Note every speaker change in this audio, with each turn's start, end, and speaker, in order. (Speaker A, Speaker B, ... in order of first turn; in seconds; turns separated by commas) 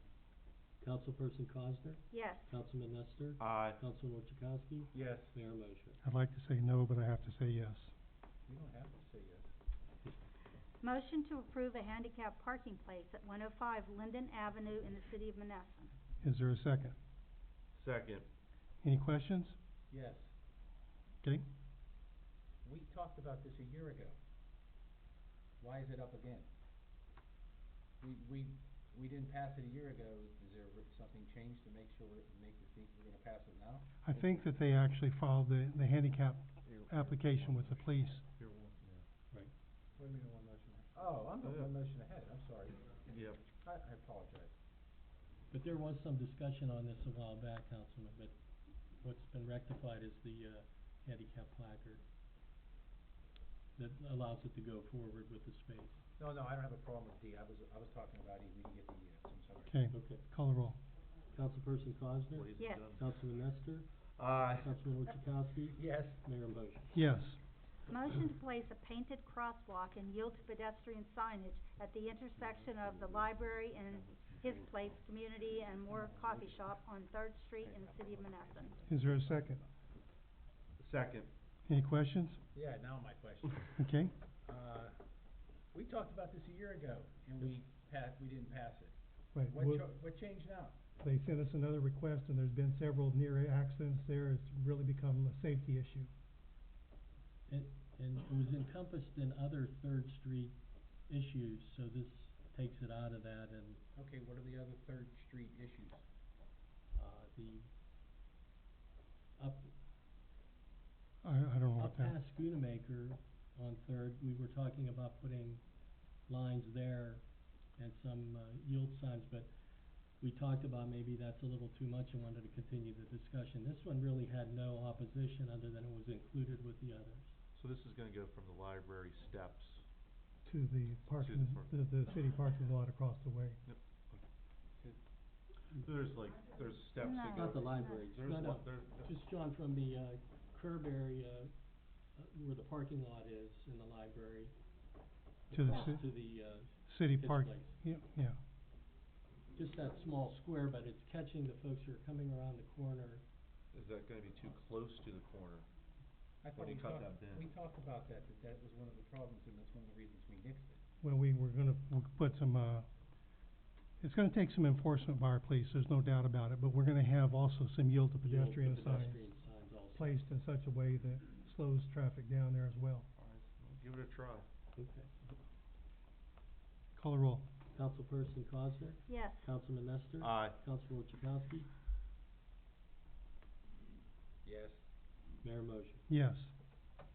Speaker A: 0.8-6.0, Speaker B: 2.1-2.5, Speaker C: 3.4-3.8, Speaker D: 4.9-5.3, Speaker E: 6.0-7.9, Speaker D: 8.5-9.5, Speaker B: 10.8-15.9, Speaker E: 16.2-17.0, Speaker C: 17.8-18.3, Speaker E: 18.8-19.6, Speaker D: 19.9-20.3, Speaker D: 22.6-24.2, Speaker D: 25.6-26.5, Speaker D: 28.0-34.0, Speaker E: 34.0-38.2, Speaker C: 38.4-39.0, Speaker D: 40.0-43.0, Speaker C: 41.4-41.7, Speaker C: 43.1-43.4, Speaker D: 43.6-44.5, Speaker A: 45.5-48.4, Speaker A: 49.0-52.0, Speaker A: 53.8-56.0, Speaker D: 56.2-59.7, Speaker E: 59.7-60.8, Speaker A: 59.9-60.2, Speaker A: 61.3-67.0, Speaker C: 62.3-63.2, Speaker B: 62.6-62.9, Speaker C: 64.2-64.7, Speaker D: 65.7-66.2, Speaker E: 66.9-67.4, Speaker B: 67.9-78.8, Speaker E: 78.9-79.6, Speaker C: 80.8-81.3, Speaker E: 81.7-82.4, Speaker D: 82.5-83.7, Speaker E: 83.7-84.1, Speaker D: 84.5-85.0, Speaker D: 85.7-89.0, Speaker E: 89.3-89.8, Speaker D: 89.5-90.8, Speaker E: 91.0-96.1, Speaker A: 97.5-100.6, Speaker A: 101.1-103.8, Speaker D: 104.0-106.0, Speaker A: 106.9-107.7, Speaker A: 109.4-109.7, Speaker E: 111.2-112.2, Speaker A: 111.8-115.6, Speaker A: 116.3-117.2, Speaker A: 117.8-119.5, Speaker A: 120.2-127.3, Speaker C: 127.6-129.8, Speaker E: 130.4-133.6, Speaker C: 131.1-131.7, Speaker C: 133.7-134.2, Speaker C: 135.8-139.1, Speaker B: 137.0-138.1, Speaker A: 137.3-141.5, Speaker A: 142.2-144.6, Speaker A: 145.5-147.7, Speaker E: 145.5-146.1, Speaker E: 146.8-148.4, Speaker A: 149.5-153.2, Speaker C: 153.7-155.7, Speaker D: 156.4-160.8, Speaker C: 156.5-157.5, Speaker E: 161.0-162.9, Speaker E: 164.0-169.2, Speaker A: 168.2-170.2, Speaker E: 169.9-173.1, Speaker C: 173.2-174.5, Speaker A: 174.8-175.1, Speaker E: 177.0-177.5, Speaker A: 177.7-181.7, Speaker B: 179.1-179.5, Speaker C: 180.2-180.6, Speaker D: 184.4-184.8, Speaker A: 185.4-186.1, Speaker E: 186.1-186.5